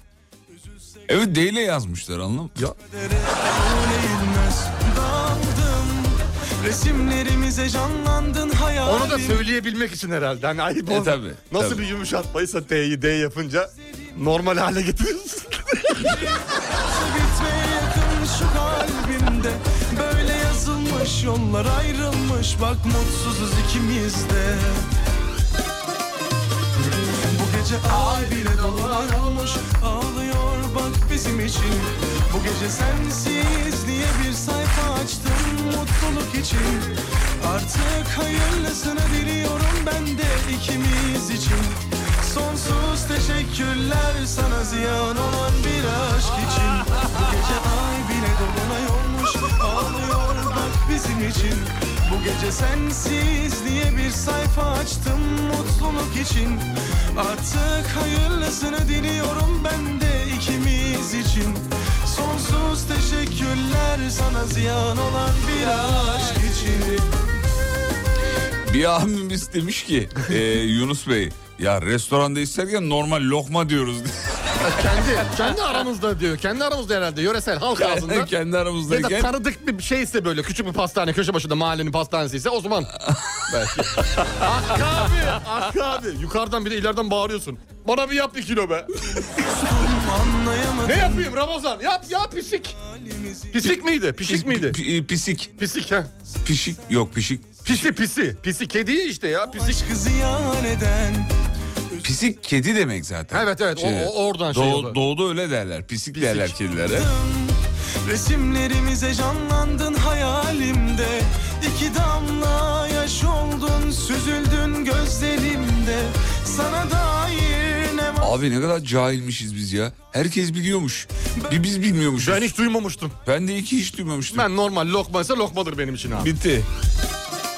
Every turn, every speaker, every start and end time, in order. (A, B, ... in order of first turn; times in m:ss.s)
0:01.1-0:02.6 A
0:02.8-0:09.5 B
0:08.8-0:16.1 C
0:10.9-0:11.8 A
0:16.8-0:24.9 B
0:27.3-1:07.0 B
1:08.6-1:15.1 A
1:14.6-1:18.3 C
1:17.7-1:19.3 A
1:18.9-1:22.9 C
1:23.0-1:23.3 A
1:23.5-1:28.9 C
1:29.4-1:31.3 B
1:30.8-1:32.7 C
1:32.8-1:33.7 B
1:33.5-1:34.8 C
1:34.2-1:35.5 A
1:35.6-1:36.1 C
1:36.4-1:37.6 A
1:37.6-1:39.8 C
1:39.5-1:41.3 B
1:42.0-1:47.1 A
1:43.3-1:45.0 C
1:46.1-1:46.5 C
1:46.9-1:58.4 B
1:58.2-2:02.5 A
2:02.2-2:03.2 C
2:03.2-2:04.5 A
2:04.3-2:06.3 C
2:06.2-2:06.7 A